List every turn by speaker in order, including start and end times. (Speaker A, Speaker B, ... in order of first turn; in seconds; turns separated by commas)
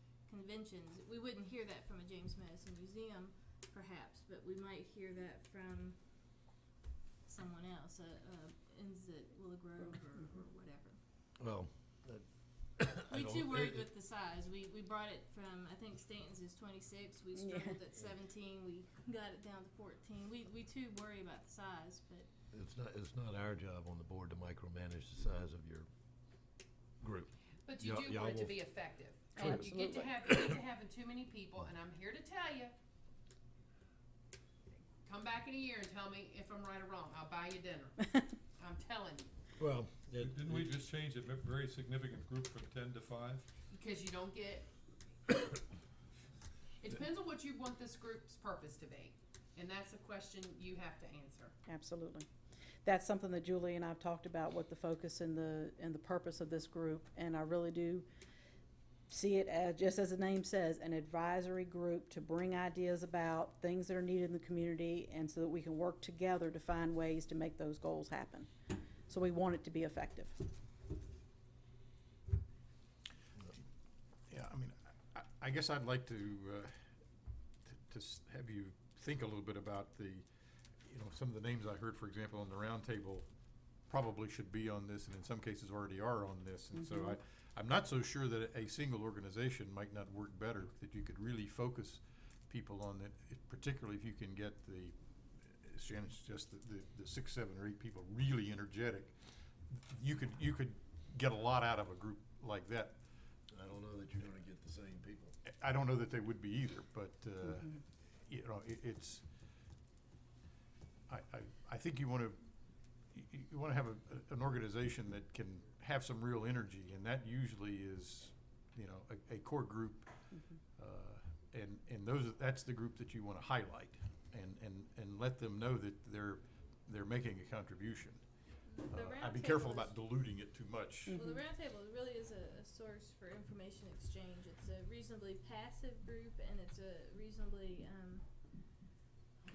Speaker A: 0.3-6.0, Speaker A: 7.3-11.0, Speaker B: 11.4-12.3, Speaker B: 12.8-13.8, Speaker A: 13.1-22.3, Speaker C: 17.4-17.8, Speaker B: 22.5-25.9, Speaker B: 27.0-28.6, Speaker D: 27.6-32.7, Speaker C: 29.3-30.0, Speaker B: 29.4-30.6, Speaker D: 35.0-38.0, Speaker D: 38.6-39.3, Speaker B: 39.6-40.7, Speaker E: 40.2-43.5, Speaker D: 43.7-44.7, Speaker D: 46.8-51.5, Speaker C: 51.7-52.3, Speaker C: 52.8-58.1, Speaker C: 59.1-68.5, Speaker C: 69.1-70.4, Speaker F: 74.3-76.9, Speaker F: 77.7-83.3, Speaker F: 83.9-95.0, Speaker F: 95.5-103.0, Speaker B: 103.5-105.3, Speaker F: 105.5-109.2, Speaker F: 111.1-112.5, Speaker F: 113.1-120.2, Speaker F: 120.8-128.3, Speaker A: 128.7-129.9, Speaker F: 128.9-131.2, Speaker C: 131.1-131.4, Speaker A: 131.1-138.2